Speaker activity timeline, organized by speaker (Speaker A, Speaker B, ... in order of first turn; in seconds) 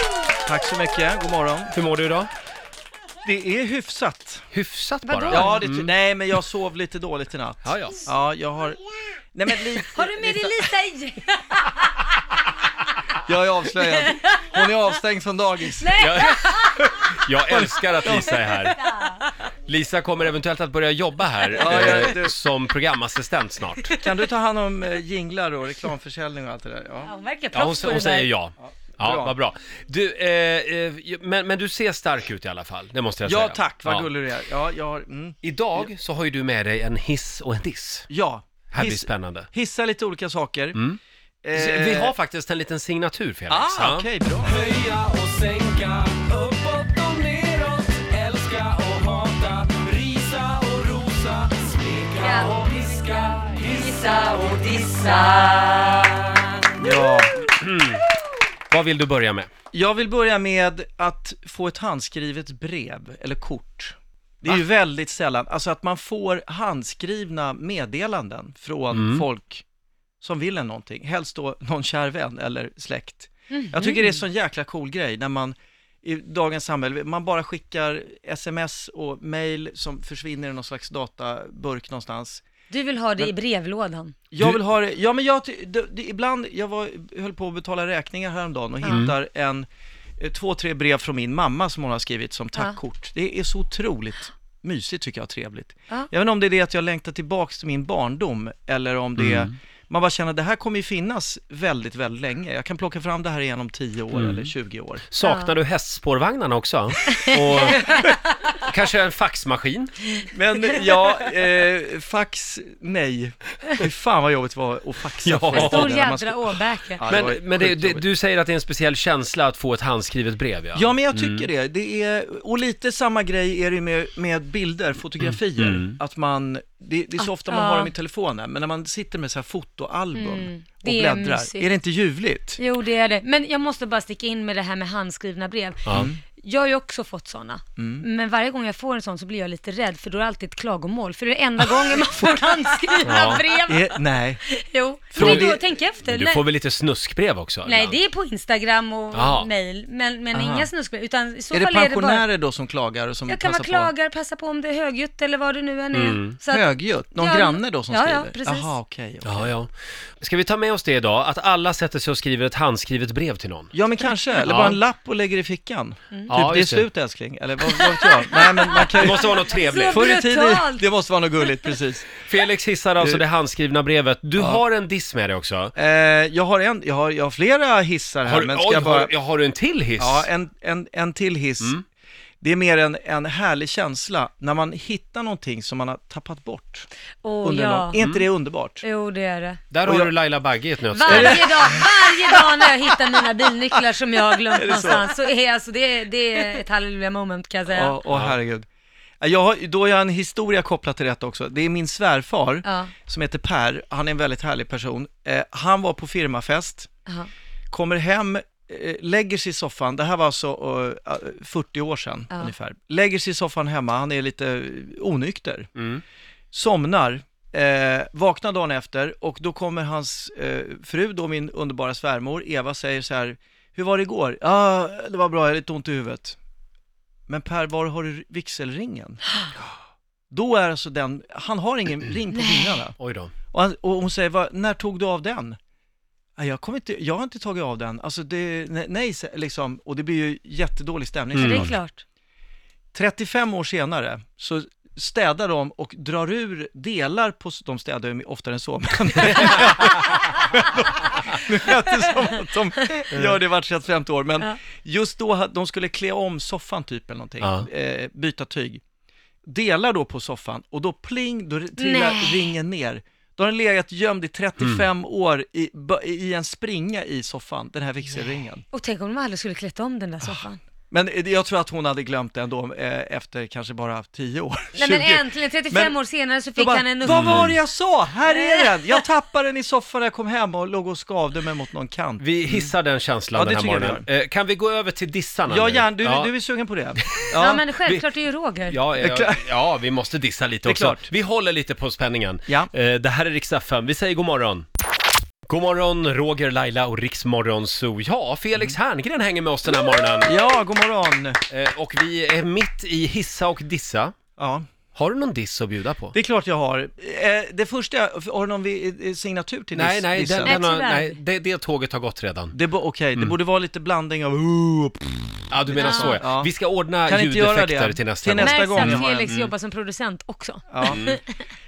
Speaker A: 0.3-1.8, 3.2-4.5, 5.3-8.8, 9.3-10.6, 13.2-16.1, 17.5-18.8, 21.6-22.4, 24.0-27.1, 28.6-29.4, 33.2-35.9, 38.1-40.8, 41.4-42.1, 43.5-44.6, 56.8-57.4, 59.7-69.7, 70.2-82.4, 84.3-89.7, 90.2-105.0, 110.3-118.1, 120.7-132.6, 135.9-136.2, 137.8-138.1, 143.2-144.4, 145.1-145.6, 150.3-150.7, 151.5-153.9, 156.5-159.5, 163.7-172.1, 174.4-174.6, 175.8-179.1, 180.0-181.8, 182.4-186.9, 187.4-188.8, 189.8-190.2, 191.1-192.7, 194.5-195.1, 197.7-198.7, 199.2-206.9, 207.7-215.7, 216.5-226.4, 227.3-229.3, 230.3-233.0, 233.5-235.6, 236.4-241.8, 242.9-258.8, 259.4-268.6, 270.2-282.7, 283.3-284.1, 285.5-287.7, 289.0-289.5, 290.6-291.1, 300.2-301.4, 304.4-304.6, 306.1-310.6, 312.5-316.5, 317.1-319.3, 320.7-321.2
Speaker B: 1.7-2.3, 4.5-5.9, 7.6-8.0, 16.0-18.9, 19.7-24.0, 27.5-34.1, 35.4-38.1, 38.7-39.5, 40.8-41.0, 41.5-44.1, 57.5-58.1, 58.7-59.5, 68.9-69.2, 88.9-89.1, 99.2-99.5, 104.1-104.5, 105.1-108.1, 108.6-109.9, 115.2-116.0, 117.1-121.5, 125.2-126.0, 143.0-143.4, 145.2-148.0, 149.1-149.5, 155.9-156.4, 159.2-163.7, 164.4-164.8, 166.3-166.9, 169.0-170.0, 172.2-175.8, 178.2-180.3, 188.0-188.3, 189.7-191.5, 198.1-198.3, 215.8-216.0, 233.0-233.3, 241.3-241.7, 249.3-249.6, 257.4-257.7, 264.6-264.9, 277.1-277.6, 282.2-286.3, 287.1-288.1, 288.7-294.7, 295.5-300.4, 301.5-304.1, 304.9-306.1, 309.7-312.6, 315.5-319.5, 320.9-321.2
Speaker C: 5.1-5.7, 9.9-12.1, 13.9-14.7, 15.8-16.9, 18.8-19.3, 27.1-28.3, 52.2-52.6, 53.5-56.3, 56.9-57.1, 73.5-74.2, 82.7-84.2, 88.8-89.1, 105.2-105.5, 107.2-108.1, 115.5-117.0, 127.2-127.9, 130.1-131.7, 132.6-146.4, 147.7-152.3, 153.3-158.8, 167.7-170.9, 171.4-171.7, 187.2-188.0, 188.8-189.6, 190.9-198.0, 202.6-202.9, 232.3-232.8, 241.4-242.0, 261.8-262.6, 268.7-270.6, 274.8-277.5, 278.3-279.0, 287.3-288.8, 310.4-311.2, 315.8-316.2, 318.4-321.4
Speaker D: 44.5-53.9